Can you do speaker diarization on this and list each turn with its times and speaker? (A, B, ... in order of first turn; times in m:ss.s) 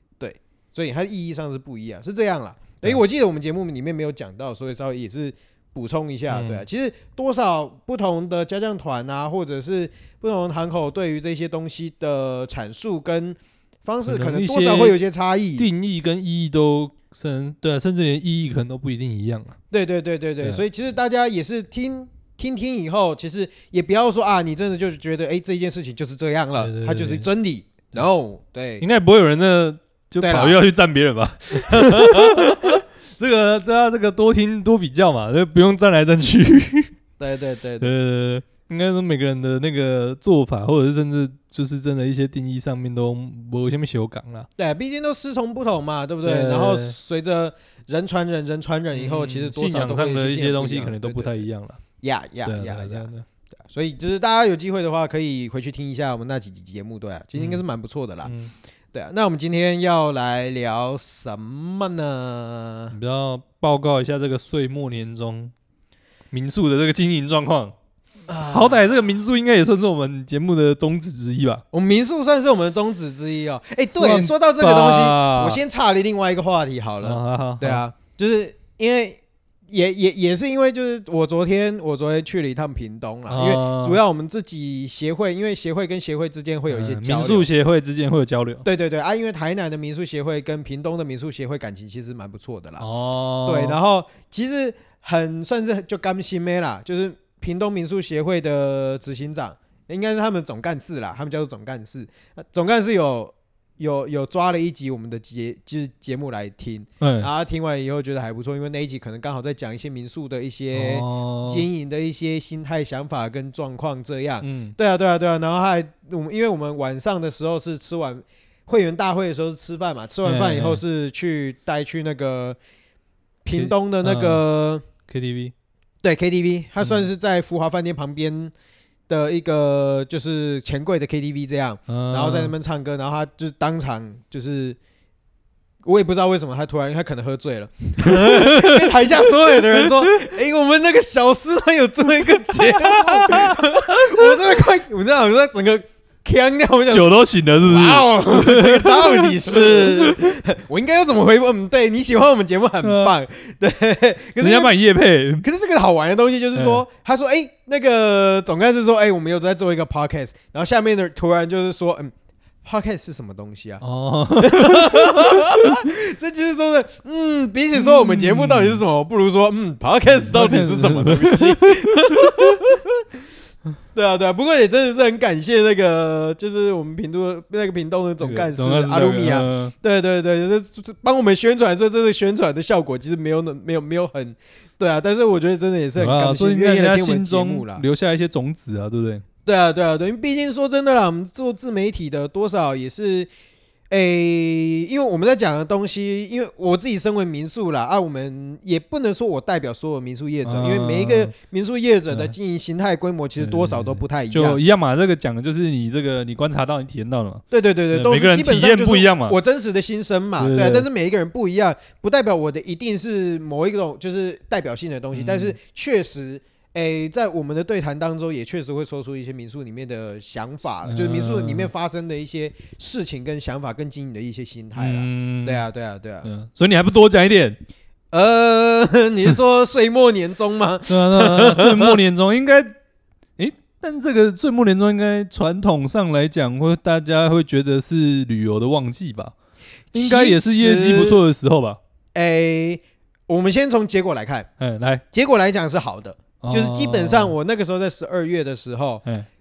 0:00.2-0:15.7 A
0:06.3-0:06.6 B
0:14.1-0:15.0 B
0:15.6-0:19.6 B
0:19.7-0:28.8 A
0:26.6-0:27.3 B
0:28.8-0:36.9 B
0:30.2-0:30.6 A
0:31.7-0:32.8 A
0:37.2-0:37.9 A
0:37.8-0:44.5 B
0:44.6-0:51.4 A
0:46.2-0:47.0 B
0:48.9-0:51.8 B
0:52.0-0:53.1 A
0:52.4-0:53.2 B
0:53.7-0:58.3 A
0:57.4-0:57.6 B
0:58.2-0:58.5 B
0:58.9-1:03.0 A
1:02.9-1:05.5 B
1:06.3-1:07.8 B
1:08.3-1:08.9 A
1:08.4-1:11.6 B
1:11.7-1:27.5 A
1:13.8-1:15.6 B
1:17.0-1:17.8 B
1:23.3-1:24.0 B
1:26.7-1:28.6 B
1:28.6-1:32.9 A
1:32.8-1:33.8 B
1:33.4-2:02.6 A
1:47.0-1:47.3 B
1:50.7-1:51.6 B
1:54.4-1:54.8 B
2:00.2-2:00.8 B
2:03.4-2:04.8 A
2:03.5-2:04.4 B
2:05.1-2:05.5 B
2:06.0-2:08.5 A
2:06.8-2:07.1 B
2:09.1-2:14.8 A
2:11.9-2:12.5 B
2:15.8-2:34.7 A
2:18.0-2:19.9 B
2:22.5-2:24.4 B
2:26.9-2:30.4 B
2:32.8-2:33.1 B
2:34.4-2:35.5 B
2:35.4-2:42.1 A
2:36.6-2:36.8 B
2:42.6-2:43.8 A
2:43.8-2:45.9 B
2:44.4-2:52.8 A
2:47.7-2:48.8 B
2:50.1-2:52.7 B
2:53.9-3:07.8 A
2:58.2-2:59.7 B
3:06.0-3:09.2 B
3:09.5-3:13.3 A
3:13.9-3:24.6 A
3:20.4-3:21.3 B
3:23.4-3:29.4 B
3:27.5-3:46.3 A
3:30.4-3:30.9 B
3:35.1-3:35.6 B
3:40.8-3:41.7 B
3:44.8-3:45.7 B
3:46.2-3:47.6 B
3:48.1-3:52.0 A
3:50.9-3:52.8 B
3:53.4-3:59.3 B
3:59.9-4:01.2 A
3:59.9-4:01.8 B
4:02.2-4:04.5 A
4:04.6-4:05.0 B
4:05.1-4:09.0 A
4:06.4-4:07.4 B